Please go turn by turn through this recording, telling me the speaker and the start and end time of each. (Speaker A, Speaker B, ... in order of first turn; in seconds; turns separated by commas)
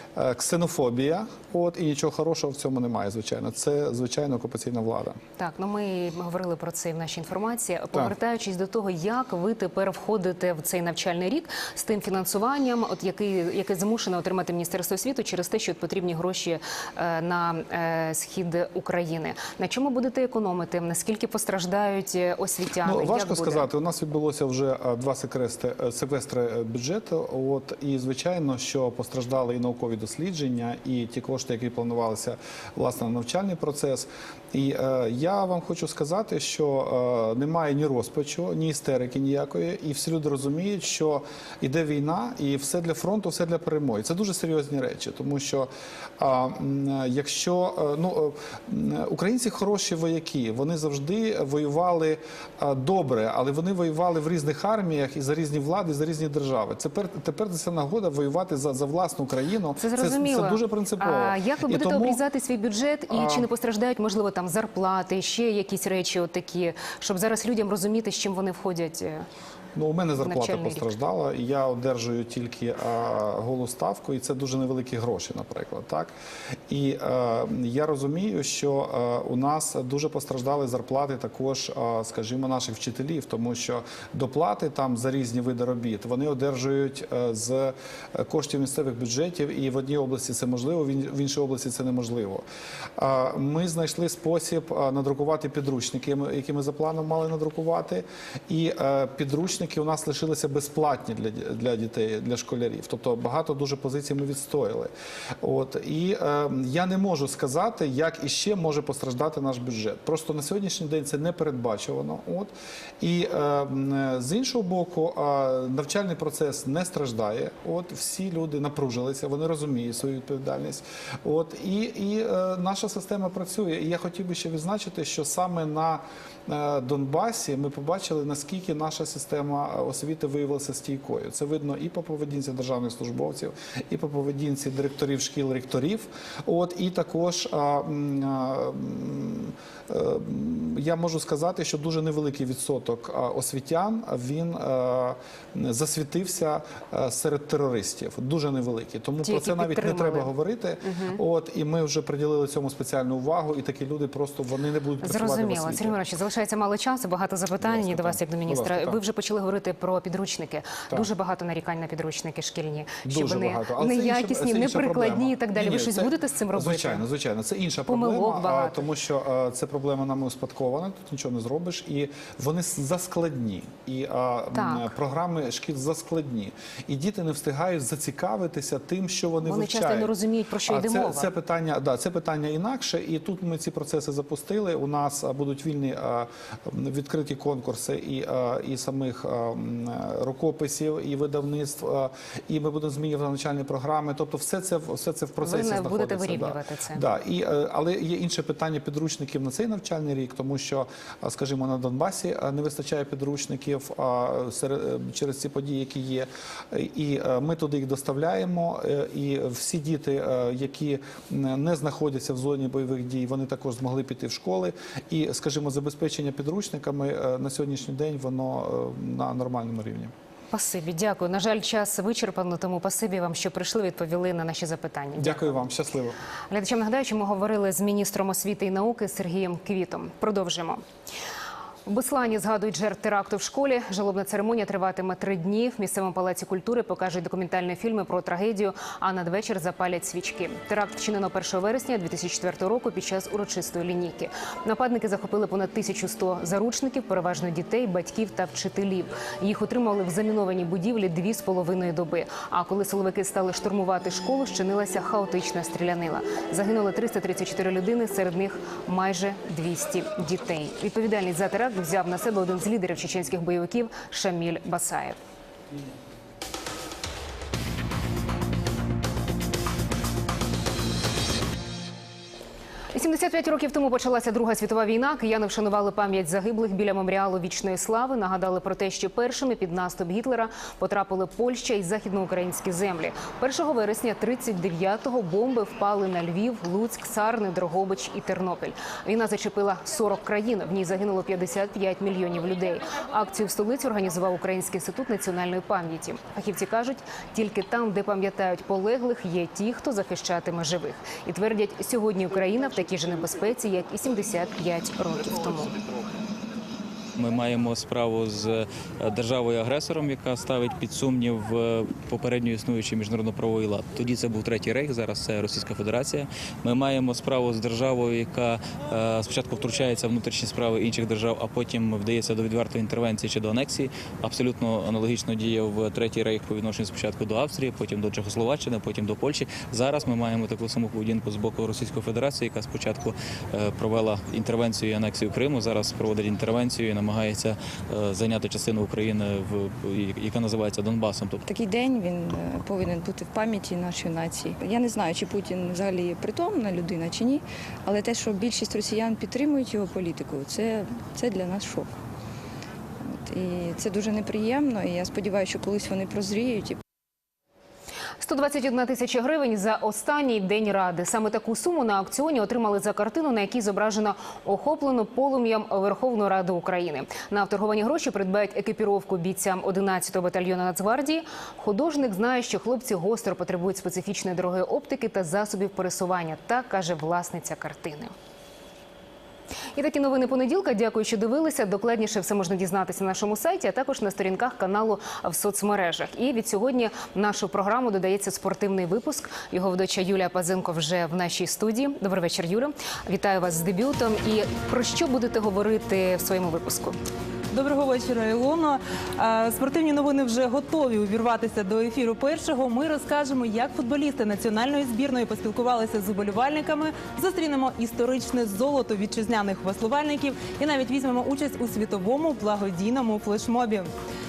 Speaker A: 0.2-5.2, Speaker B: 5.4-23.7, Speaker A: 22.9-62.2, Speaker B: 59.8-69.3, Speaker A: 63.1-63.5, Speaker A: 69.8-76.1, Speaker B: 70.2-70.8, Speaker A: 76.7-92.5, Speaker A: 93.0-156.0, Speaker B: 149.3-150.3, Speaker B: 150.8-151.2, Speaker B: 155.0-167.0, Speaker A: 157.6-159.0, Speaker A: 163.1-180.1, Speaker B: 167.9-168.8, Speaker B: 174.6-174.9, Speaker B: 179.4-181.3, Speaker A: 180.7-220.1, Speaker B: 195.4-197.0, Speaker B: 220.5-225.4, Speaker A: 225.2-226.2, Speaker B: 226.5-230.8, Speaker B: 231.9-265.2, Speaker B: 272.9-305.7, Speaker C: 307.2-341.4, Speaker D: 341.4-351.9, Speaker D: 353.1-356.8, Speaker B: 358.2-378.1, Speaker B: 379.8-397.0, Speaker E: 397.5-413.9